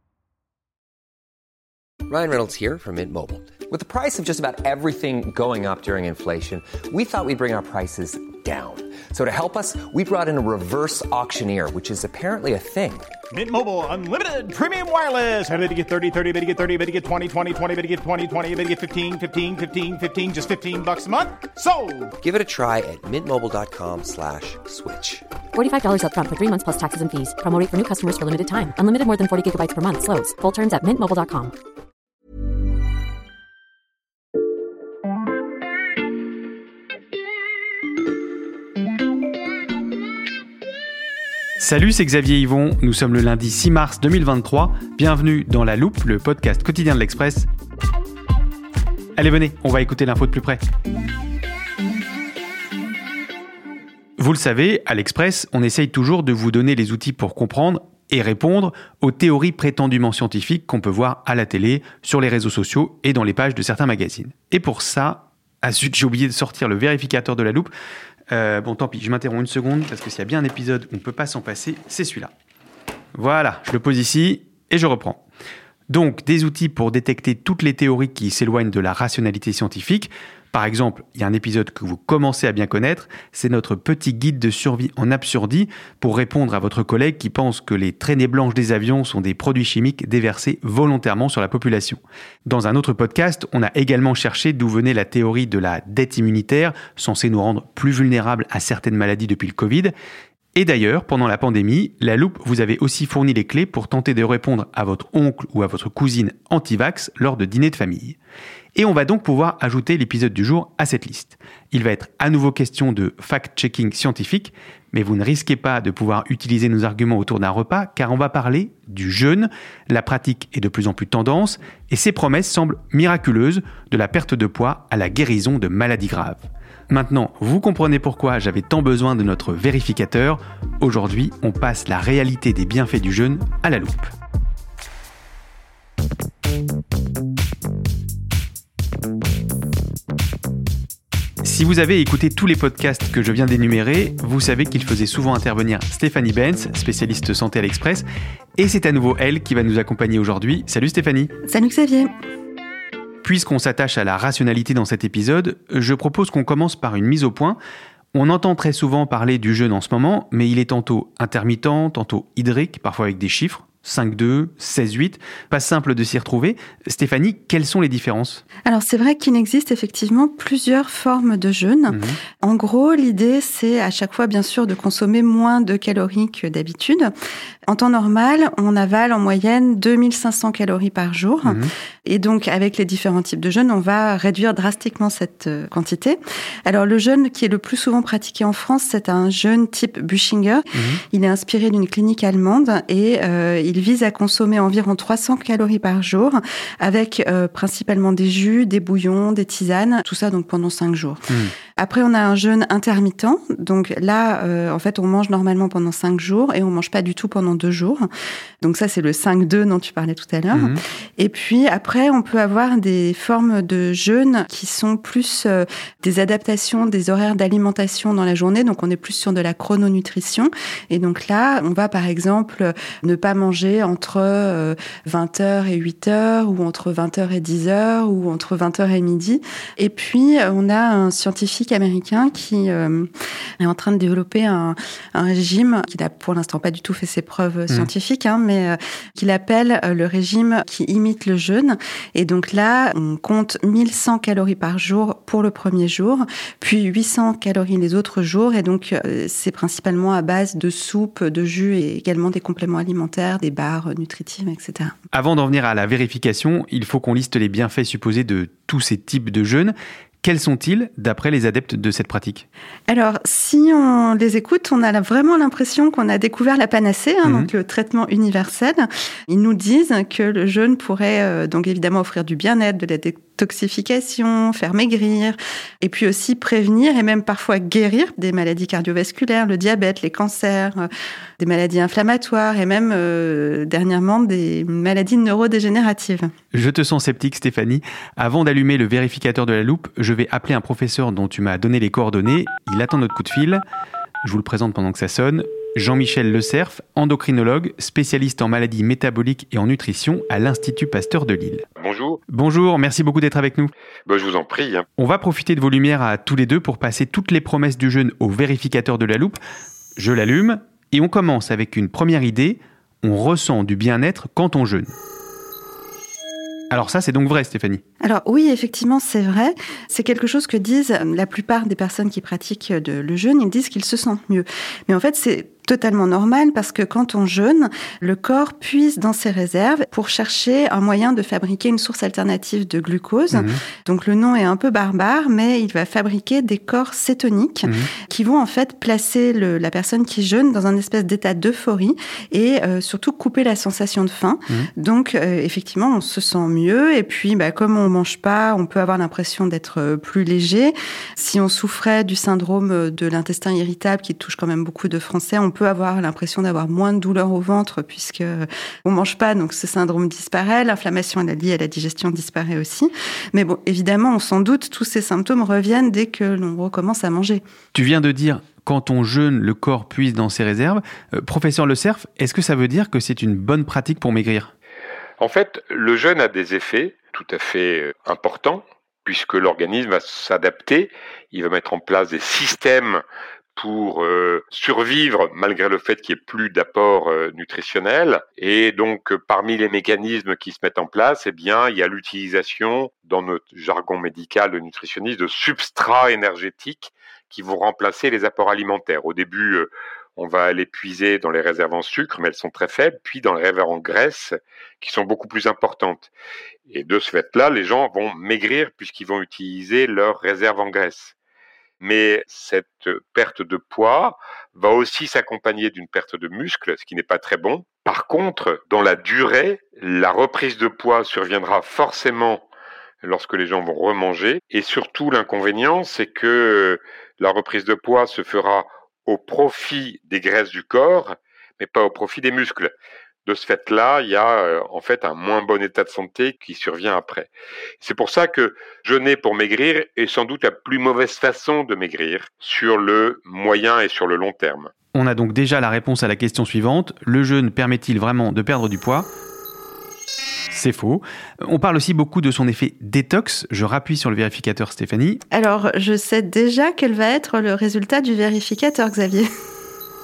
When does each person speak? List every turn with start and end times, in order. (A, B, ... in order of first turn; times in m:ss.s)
0:02.1-0:13.1 A
0:13.3-0:22.1 B
0:22.2-0:25.2 A
0:25.5-0:31.5 C
0:41.6-0:47.5 D
0:49.2-0:50.6 D
0:54.2-1:07.7 D
1:08.3-1:12.3 D
1:13.2-1:15.2 D
1:15.9-1:39.9 D
1:40.6-1:48.2 D
1:48.8-2:14.1 D
2:21.4-2:28.1 D
2:28.6-2:31.3 D
2:31.5-2:32.1 E
2:33.2-2:37.6 D
2:38.1-2:48.4 D
2:48.6-2:57.1 E
2:51.9-2:52.2 D
2:57.7-3:28.1 E
3:01.4-3:01.7 D
3:10.7-3:11.0 D
3:28.6-4:14.9 E
3:30.5-3:30.8 D
4:15.1-4:22.4 D
4:22.9-4:40.9 E
4:41.4-4:46.3 E
4:46.5-4:53.6 D
4:54.2-5:01.6 D
5:01.8-5:02.2 F
5:02.3-5:03.7 D
5:04.1-5:04.9 F
5:05.0-5:09.4 D
5:10.0-5:14.9 D
5:16.7-5:17.8 D
5:18.0-6:07.4 E
5:33.3-5:33.6 D
6:07.7-6:14.5 D
6:15.2-6:23.0 F
6:23.6-6:46.1 F
6:46.7-6:51.2 F
6:51.8-7:02.4 F
7:03.0-7:12.7 F
7:13.3-7:17.3 F
7:17.8-7:24.7 F
7:24.9-7:29.1 D
7:30.5-7:35.2 D
7:35.3-7:39.3 E